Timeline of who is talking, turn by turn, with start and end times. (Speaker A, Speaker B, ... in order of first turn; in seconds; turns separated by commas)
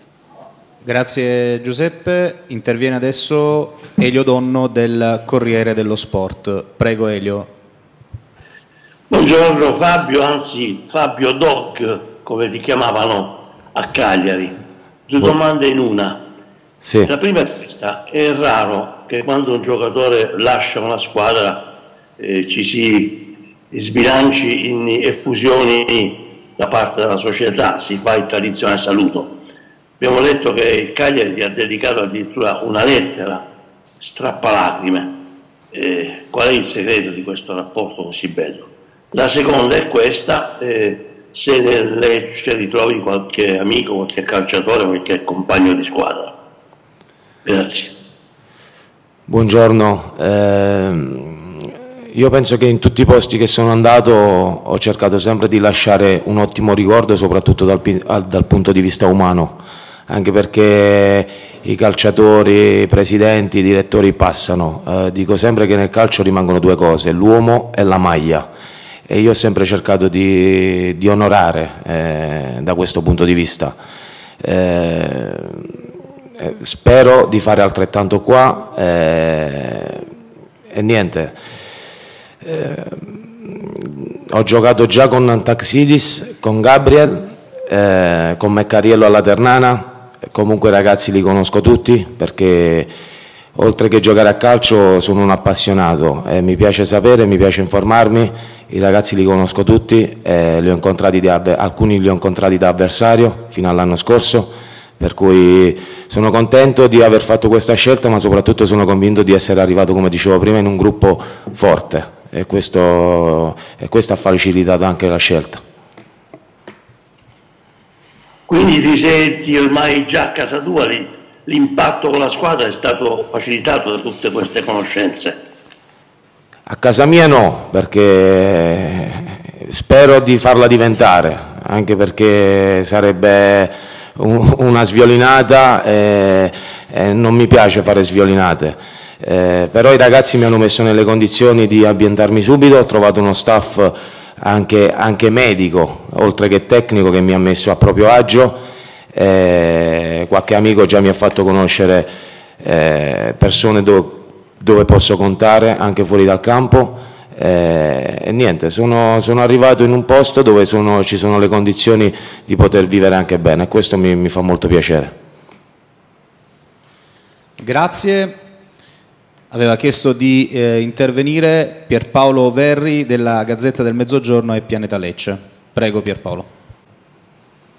Speaker A: 0.8-7.5, Speaker B: 9.1-14.6, Speaker B: 15.1-16.2, Speaker C: 16.8-17.1, Speaker B: 17.1-21.6, Speaker B: 22.2-23.2, Speaker B: 23.7-29.3, Speaker B: 30.0-33.4, Speaker B: 34.0-35.1, Speaker B: 35.7-46.3, Speaker B: 47.4-48.0, Speaker C: 49.3-68.5, Speaker C: 69.1-73.8, Speaker C: 74.4-75.8, Speaker C: 76.4-80.1, Speaker C: 80.7-81.3, Speaker C: 82.4-92.9, Speaker C: 93.5-115.6, Speaker B: 118.5-125.4, Speaker C: 126.7-148.6, Speaker C: 149.1-152.1, Speaker C: 152.6-165.1, Speaker A: 167.6-168.3, Speaker A: 169.5-176.5